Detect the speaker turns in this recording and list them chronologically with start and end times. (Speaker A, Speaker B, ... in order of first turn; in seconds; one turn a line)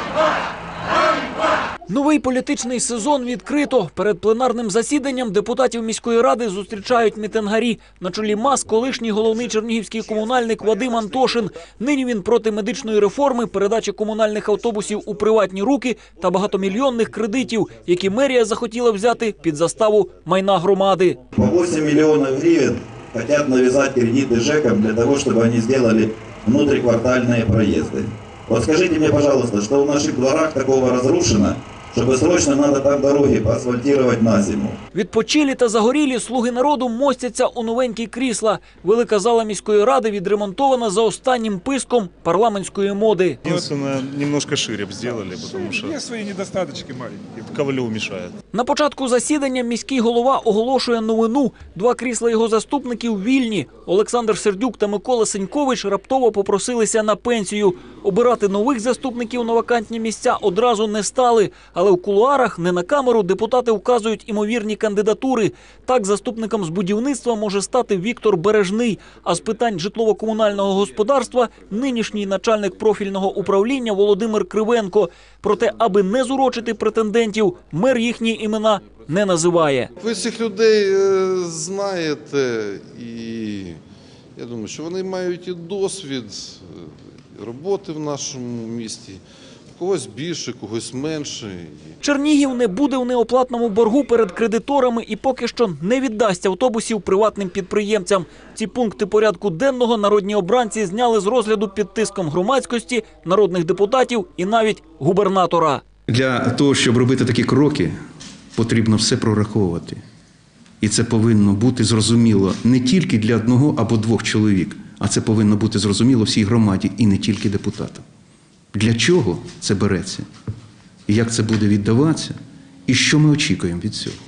Speaker A: 1.9-21.2
Speaker B: 21.3-34.8
Speaker A: 34.9-43.4
Speaker C: 43.4-46.0
Speaker D: 45.5-47.6
Speaker C: 47.5-48.3
Speaker A: 48.5-79.9
Speaker E: 80.0-83.8
Speaker E: 84.3-89.2
Speaker E: 89.7-92.0
Speaker A: 92.0-105.8
Speaker F: 106.1-107.9
Speaker F: 108.5-110.0
Speaker F: 110.8-118.0
Speaker F: 118.7-120.2
Speaker F: 121.1-122.3
Speaker F: 122.9-124.2